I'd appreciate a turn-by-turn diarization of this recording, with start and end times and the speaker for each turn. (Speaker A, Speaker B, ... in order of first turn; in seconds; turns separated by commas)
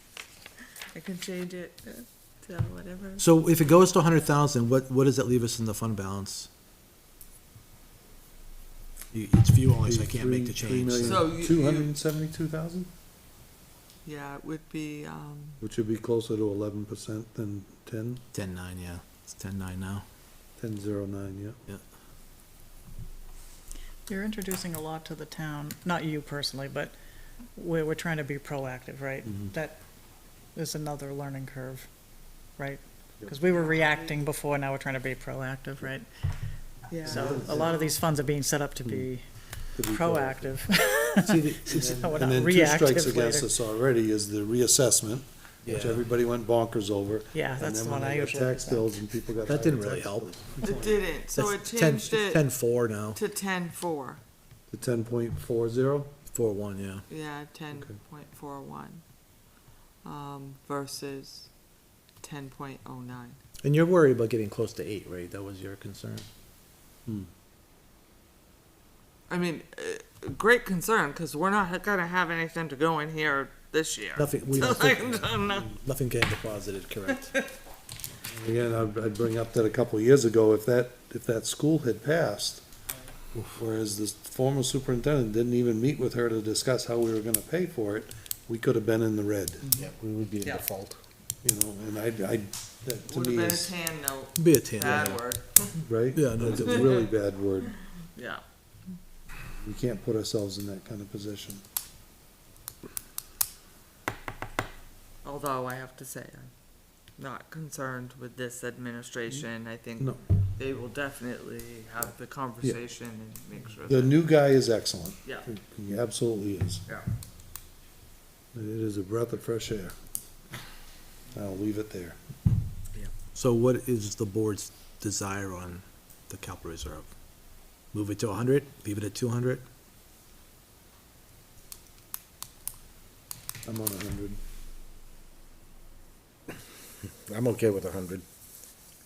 Speaker A: 0.9-3.2, Speaker B: 3.2-6.5, Speaker B: 9.1-11.3, Speaker C: 9.8-12.9, Speaker A: 11.0-11.9, Speaker A: 14.0-15.6, Speaker C: 15.6-18.2, Speaker B: 18.3-20.0, Speaker C: 20.6-21.6, Speaker D: 24.1-26.9, Speaker D: 27.5-29.8, Speaker C: 29.2-29.5, Speaker D: 30.5-31.9, Speaker D: 32.5-36.1, Speaker A: 33.5-34.2, Speaker A: 36.9-37.9, Speaker D: 37.0-43.5, Speaker C: 37.0-37.8, Speaker C: 39.7-40.6, Speaker B: 41.2-42.3, Speaker C: 41.7-51.0, Speaker B: 45.6-46.0, Speaker D: 47.3-48.9, Speaker B: 49.5-50.4, Speaker A: 50.6-52.5, Speaker B: 51.3-53.2, Speaker A: 53.1-54.2, Speaker C: 54.7-56.1, Speaker B: 56.3-57.0, Speaker A: 57.1-59.0, Speaker A: 60.0-61.5, Speaker A: 62.2-63.4, Speaker B: 63.6-66.3, Speaker A: 69.3-75.7, Speaker B: 74.2-77.3, Speaker A: 77.1-77.5, Speaker C: 78.3-82.6, Speaker C: 83.5-89.7, Speaker E: 89.7-91.0, Speaker C: 91.4-93.7, Speaker A: 93.1-95.8, Speaker B: 94.4-95.2, Speaker C: 95.8-97.7, Speaker B: 96.1-97.0, Speaker A: 96.5-97.1, Speaker A: 98.1-98.4, Speaker C: 99.6-101.6, Speaker A: 105.2-106.5, Speaker A: 107.2-114.2, Speaker C: 113.8-116.8, Speaker C: 118.5-119.9, Speaker C: 121.3-122.2, Speaker B: 123.2-127.1, Speaker B: 127.9-129.7, Speaker C: 133.6-134.4, Speaker E: 137.3-138.2